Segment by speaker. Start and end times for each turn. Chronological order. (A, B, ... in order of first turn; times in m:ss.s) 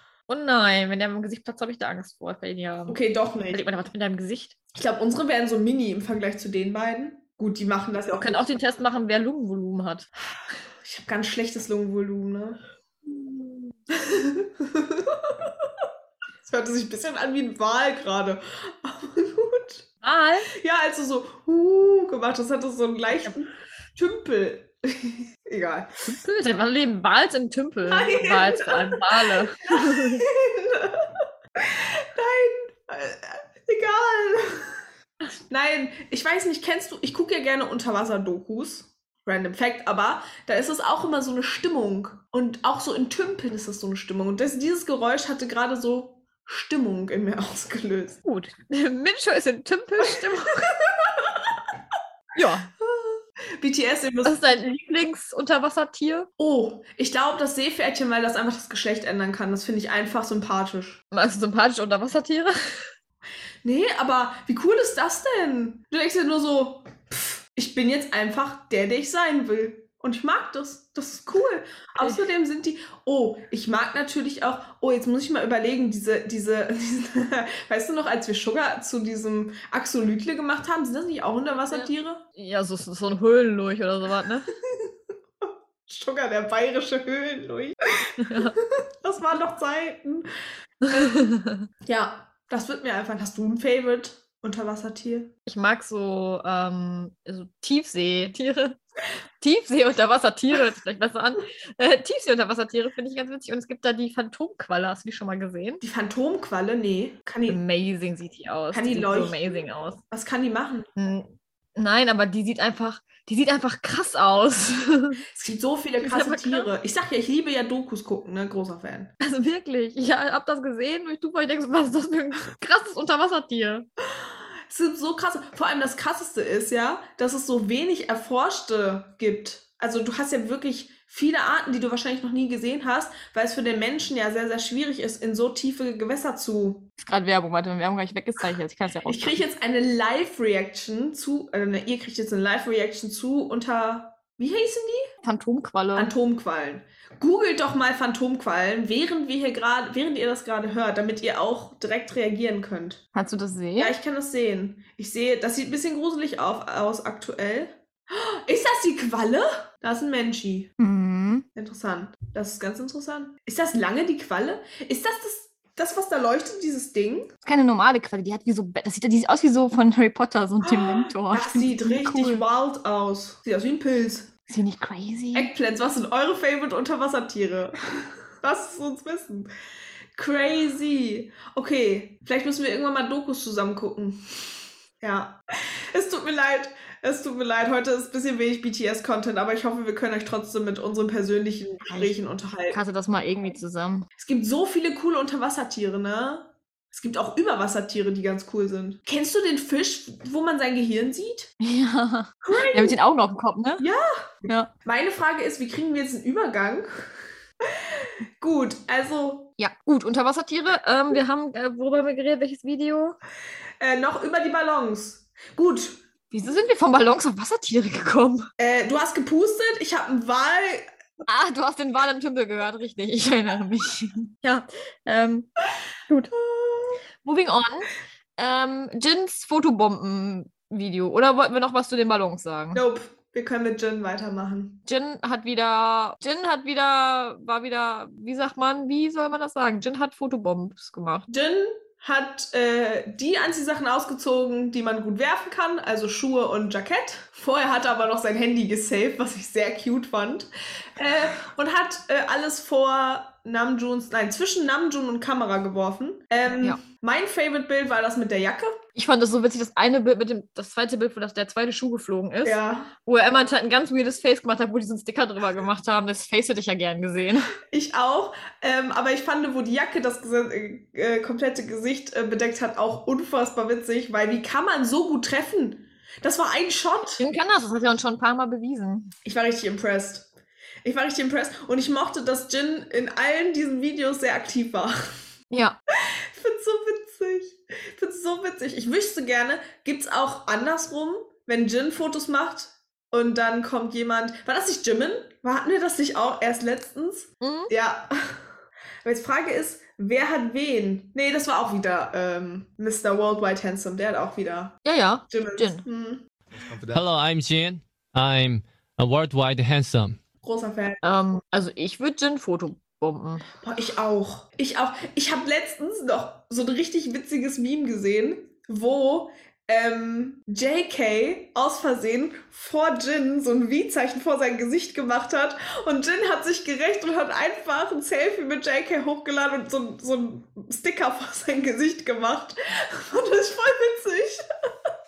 0:00.3-0:03.0 A
0:02.9-0:03.6 B
0:03.5-0:04.5 A
0:04.7-0:08.5 B
0:08.2-0:10.1 A
0:10.8-0:12.6 B
0:13.1-0:13.7 A
0:14.0-0:15.8 B
0:16.4-0:19.8 B
0:20.0-0:20.5 A
0:20.6-0:25.9 B
0:26.1-0:30.2 A
0:27.9-0:34.8 B
0:35.5-0:48.2 B
0:48.2-0:50.7 A
0:50.6-0:51.6 B
0:52.4-0:52.7 A
0:52.8-0:54.4 B
0:54.2-0:56.3 A
0:56.4-1:01.0 B
1:01.1-1:02.5 A
1:03.6-1:22.2 B
1:21.7-1:24.5 A
1:25.4-1:30.3 B
1:28.2-1:28.6 A
1:30.9-1:31.2 B
1:30.9-1:31.6 A
1:31.8-1:35.3 B
1:35.5-1:38.8 A
1:39.4-1:45.8 A
1:45.8-1:47.6 B
1:47.5-1:50.0 A
1:48.7-1:49.5 B
1:50.1-1:50.9 B
1:51.0-1:55.2 A
1:55.3-1:59.1 B
1:56.0-1:56.7 A
1:59.2-2:03.9 A
2:04.2-2:16.9 B
2:17.0-2:19.4 A
2:19.1-2:25.1 B
2:25.2-2:26.1 A
2:26.0-2:33.0 B
2:33.2-2:34.0 A
2:33.8-2:40.7 B
2:40.8-2:41.5 A
2:41.6-2:47.3 B
2:47.4-2:52.4 A
2:50.6-2:54.3 B
2:54.5-2:55.5 A
2:55.3-2:57.9 B
2:58.4-2:59.5 B
3:00.2-3:12.8 B
3:11.9-3:12.2 A
3:12.7-3:14.1 A
3:14.2-3:21.5 B
3:21.6-3:23.8 A
3:22.4-3:23.0 B
3:23.8-3:24.3 B
3:24.4-3:24.7 A
3:24.8-3:27.1 B
3:27.8-3:29.5 B
3:29.6-3:33.2 A
3:33.8-3:36.0 B
3:36.3-3:38.5 A
3:38.6-3:40.9 B
3:41.3-3:45.5 A
3:46.1-3:46.3 A
3:46.4-3:47.0 B
3:47.2-3:52.8 A
3:52.7-3:54.8 B
3:54.9-4:01.3 A
4:01.3-4:18.8 B
4:19.0-4:27.5 A
4:22.4-4:22.9 B
4:27.7-4:37.2 B
4:37.2-4:39.1 A
4:39.2-4:40.3 B
4:40.8-4:45.0 B
4:45.5-4:45.8 A
4:46.0-4:58.5 B
4:57.4-4:57.7 A
4:59.0-5:06.3 B
5:04.8-5:05.9 A
5:06.8-5:10.2 C
5:10.4-5:11.0 B
5:11.0-5:13.4 A
5:13.6-5:34.9 B